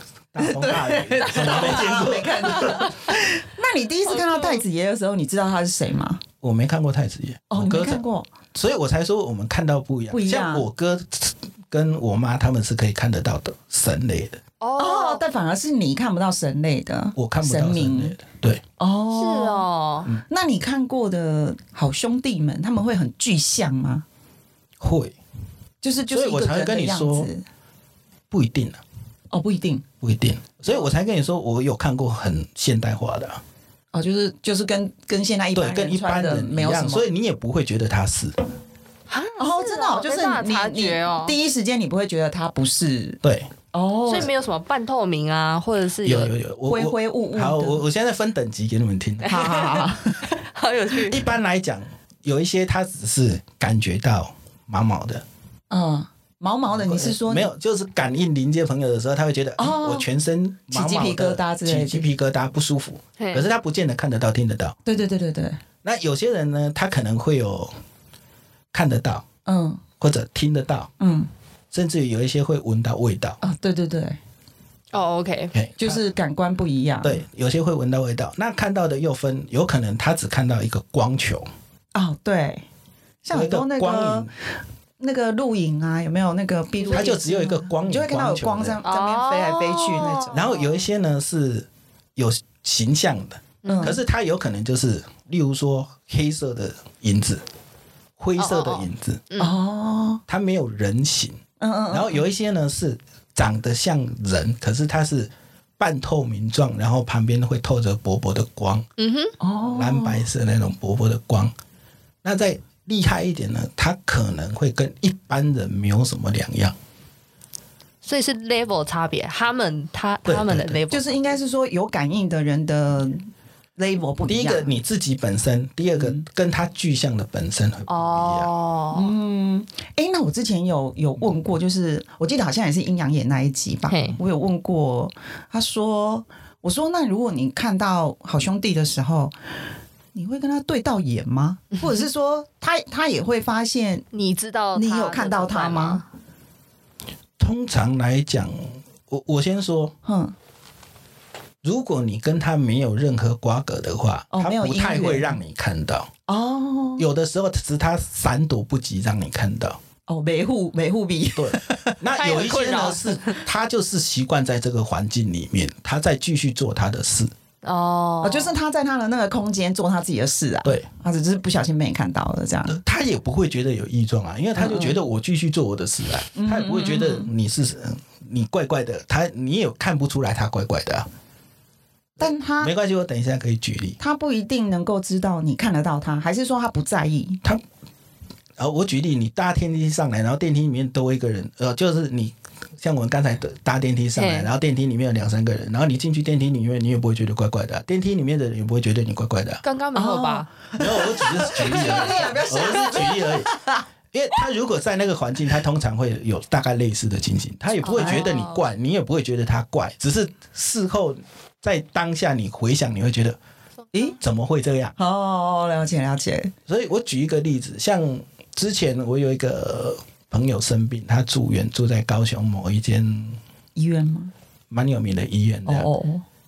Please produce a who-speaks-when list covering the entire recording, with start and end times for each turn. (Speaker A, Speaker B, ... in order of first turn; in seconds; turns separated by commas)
Speaker A: 0.3-2.9, Speaker B: 0.4-6.2, Speaker C: 1.2-1.9, Speaker C: 4.1-4.6, Speaker A: 6.4-14.4, Speaker B: 7.5-8.3, Speaker B: 10.1-10.7, Speaker C: 14.6-15.2, Speaker B: 14.8-18.2, Speaker A: 17.2-18.6, Speaker B: 18.8-19.7, Speaker C: 19.1-20.1, Speaker B: 20.3-24.0, Speaker A: 24.8-25.2, Speaker B: 25.8-27.4, Speaker A: 26.1-27.3, Speaker A: 28.3-28.8, Speaker B: 29.3-29.8, Speaker A: 30.0-33.4, Speaker B: 33.9-37.1, Speaker A: 35.5-38.4, Speaker C: 39.1-41.4, Speaker B: 39.4-43.2, Speaker A: 43.2-43.5, Speaker B: 43.7-44.3, Speaker C: 44.1-46.3, Speaker A: 46.0-49.7, Speaker B: 46.7-47.8, Speaker C: 49.2-51.3, Speaker B: 49.3-50.3, Speaker A: 51.0-55.2, Speaker B: 55.7-57.5, Speaker A: 56.7-64.8, Speaker B: 59.6-60.1, Speaker B: 60.7-62.1, Speaker C: 63.2-63.5, Speaker B: 64.8-65.6, Speaker A: 65.8-67.7, Speaker A: 68.7-69.3, Speaker B: 69.5-69.8, Speaker A: 70.0-70.9, Speaker B: 71.0-71.3, Speaker A: 71.7-73.4, Speaker B: 73.4-74.2, Speaker C: 74.9-75.5, Speaker A: 75.5-76.0, Speaker B: 75.8-77.2, Speaker A: 77.0-81.5, Speaker B: 81.9-82.7, Speaker B: 83.2-84.3, Speaker A: 83.3-84.3, Speaker B: 85.0-90.4, Speaker C: 86.8-87.2, Speaker A: 86.9-88.8, Speaker C: 88.9-90.7, Speaker A: 90.3-97.4, Speaker C: 93.6-94.0, Speaker B: 93.7-94.0, Speaker A: 98.2-99.2, Speaker C: 98.4-99.5, Speaker B: 99.4-100.2, Speaker A: 100.3-108.9, Speaker B: 101.6-102.2, Speaker C: 109.0-109.3, Speaker B: 109.4-110.2, Speaker A: 109.6-111.5, Speaker A: 112.2-116.8, Speaker C: 118.0-121.3, Speaker A: 120.3-120.8, Speaker B: 120.9-124.7, Speaker A: 124.3-128.5, Speaker C: 127.9-129.1, Speaker B: 128.9-139.3, Speaker C: 133.9-134.2, Speaker B: 140.1-144.1, Speaker C: 144.1-146.1, Speaker B: 144.8-146.0, Speaker A: 147.4-149.9, Speaker B: 150.1-150.3, Speaker A: 151.6-156.1, Speaker B: 154.3-155.4, Speaker B: 156.3-157.1, Speaker A: 157.0-159.8, Speaker B: 160.1-162.0, Speaker A: 161.3-167.3, Speaker C: 162.1-163.4, Speaker C: 167.6-168.5, Speaker B: 168.2-172.8, Speaker A: 172.7-181.1, Speaker B: 174.6-175.0, Speaker B: 176.3-177.3, Speaker A: 182.2-184.0, Speaker B: 182.2-182.7, Speaker B: 184.0-187.4, Speaker A: 188.6-199.6, Speaker C: 194.2-194.5, Speaker C: 199.6-200.5, Speaker B: 199.9-203.8, Speaker A: 200.8-203.6, Speaker C: 201.7-202.8, Speaker A: 204.1-213.4, Speaker C: 207.8-208.6, Speaker B: 207.9-208.3, Speaker A: 214.2-214.9, Speaker B: 215.0-216.5, Speaker A: 216.7-223.4, Speaker B: 223.8-224.3, Speaker A: 224.7-225.9, Speaker B: 225.7-226.2